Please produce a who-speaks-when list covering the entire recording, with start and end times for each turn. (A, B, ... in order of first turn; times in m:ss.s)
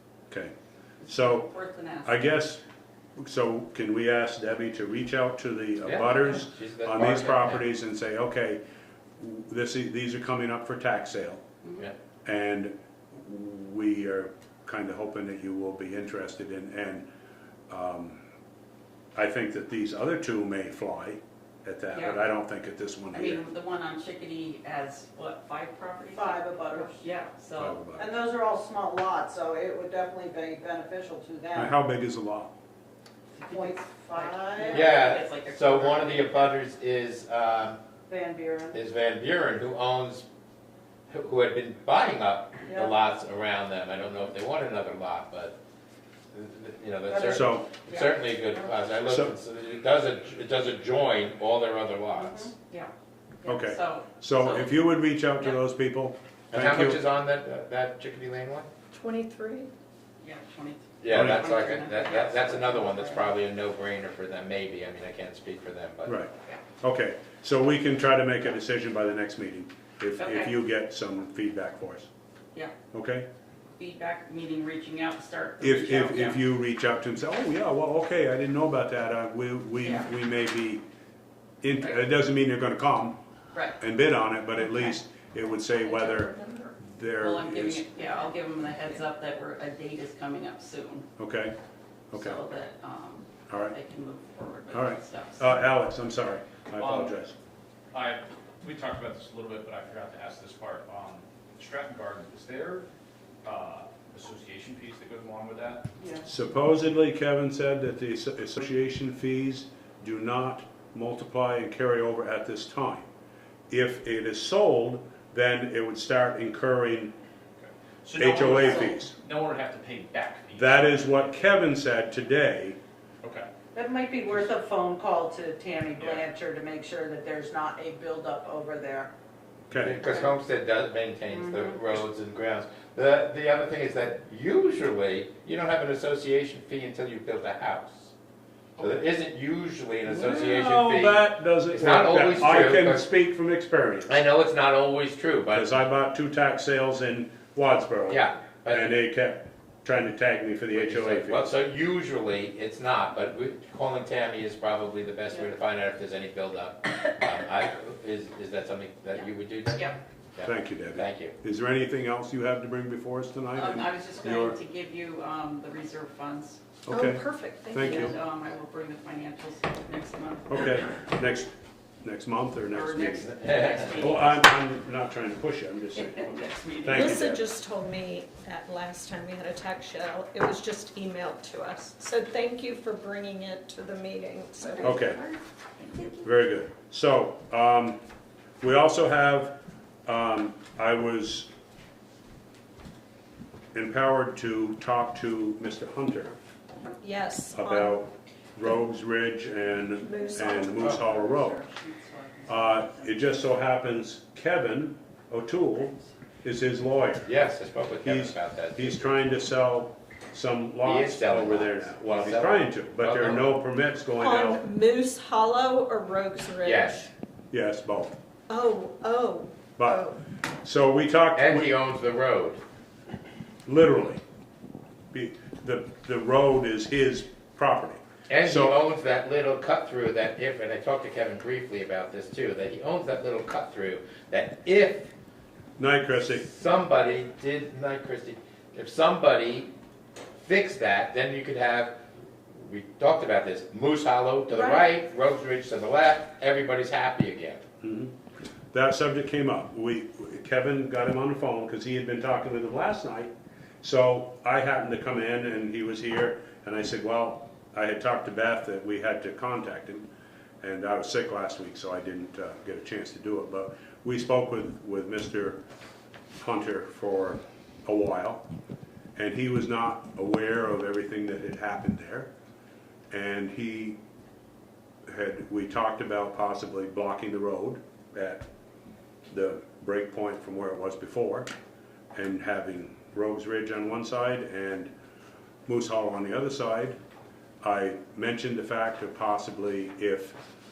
0:01.0-0:01.5 A
0:01.0-0:02.1 B
0:02.0-0:02.6 A
0:03.2-0:08.6 A
0:05.8-0:07.6 C
0:09.2-0:11.4 A
0:12.2-0:17.0 A
0:17.7-0:18.2 A
0:19.1-0:23.4 A
0:21.9-0:22.2 B
0:23.1-0:27.8 B
0:26.1-0:27.0 D
0:27.6-0:28.1 A
0:28.0-0:31.7 D
0:31.5-0:32.5 A
0:33.4-0:36.5 B
0:33.5-0:34.9 D
0:34.7-0:37.8 C
0:38.1-0:38.8 D
0:38.7-0:40.2 C
0:41.1-0:45.6 C
0:42.7-0:42.9 D
0:46.3-0:52.5 C
0:47.1-0:47.5 D
0:47.3-0:47.7 A
0:49.1-0:49.3 A
0:52.1-0:52.5 D
0:53.4-0:54.8 B
0:53.4-0:57.0 A
0:56.5-0:58.7 C
0:58.9-0:59.7 E
1:00.2-1:03.3 B
1:01.0-1:06.2 C
1:01.1-1:01.5 A
1:06.0-1:12.1 A
1:10.2-1:10.5 B
1:12.9-1:13.3 A
1:13.8-1:16.4 B
1:15.6-1:20.8 A
1:19.8-1:20.1 B
1:21.6-1:23.2 A
1:23.5-1:23.8 B
1:23.8-1:27.8 A
1:25.7-1:26.7 E
1:27.2-1:31.0 B
1:31.2-1:31.6 A
1:32.1-1:32.4 A
1:32.1-1:35.6 B
1:33.5-1:33.8 A
1:34.7-1:37.3 A
1:36.8-1:37.2 F
1:37.9-1:42.9 F
1:43.4-1:45.8 F
1:46.0-1:46.2 D
1:46.2-1:53.1 A
1:53.7-1:57.1 A
1:57.6-2:01.4 F
1:58.2-1:59.1 A
2:00.6-2:02.8 A
2:03.2-2:03.5 F
2:03.7-2:09.1 D
2:06.0-2:06.2 F
2:09.7-2:10.0 A
2:09.8-2:18.1 C
2:11.3-2:11.7 D
2:18.8-2:23.1 C
2:20.0-2:24.1 A
2:24.1-2:25.8 C
2:25.5-2:31.5 A
2:28.1-2:28.9 C
2:30.7-2:41.3 C
2:40.4-2:44.6 A
2:43.5-2:46.6 B
2:46.9-2:48.2 A
2:46.9-2:48.1 E
2:47.8-2:50.6 B
2:50.5-2:53.3 A
2:52.7-2:54.5 B
2:53.4-2:54.0 C
2:54.0-2:56.3 A
2:55.9-2:57.3 B
2:56.8-2:57.4 A
2:56.8-3:05.0 E
3:04.8-3:06.2 B
3:04.8-3:05.2 A
3:06.2-3:08.0 A
3:08.6-3:11.5 A
3:13.7-3:16.4 A
3:17.0-3:18.0 E
3:17.5-3:21.6 A
3:20.0-3:20.9 E
3:20.6-3:23.6 B
3:22.5-3:27.3 A
3:27.2-3:29.1 C
3:28.0-3:34.6 A
3:30.8-3:33.6 C
3:34.2-3:37.1 E
3:36.6-3:37.1 C
3:37.5-3:38.2 A
3:38.5-3:40.2 E
3:39.8-3:40.0 A
3:40.6-3:41.7 A
3:41.3-3:42.6 C
3:43.6-3:44.2 A
3:45.1-3:48.8 A
3:48.3-3:55.1 C
3:55.8-3:56.4 A
3:56.4-3:59.7 C
4:00.4-4:02.0 C
4:02.5-4:07.6 C
4:04.5-4:04.8 D
4:07.8-4:08.1 A
4:08.7-4:13.3 A
4:13.8-4:20.0 A
4:20.6-4:25.6 A
4:26.4-4:28.4 A
4:29.2-4:32.3 A
4:33.1-4:34.0 A
4:35.0-4:38.5 A
4:39.3-4:41.5 A
4:42.1-4:44.9 A
4:45.6-4:47.0 A
4:47.6-4:50.4 A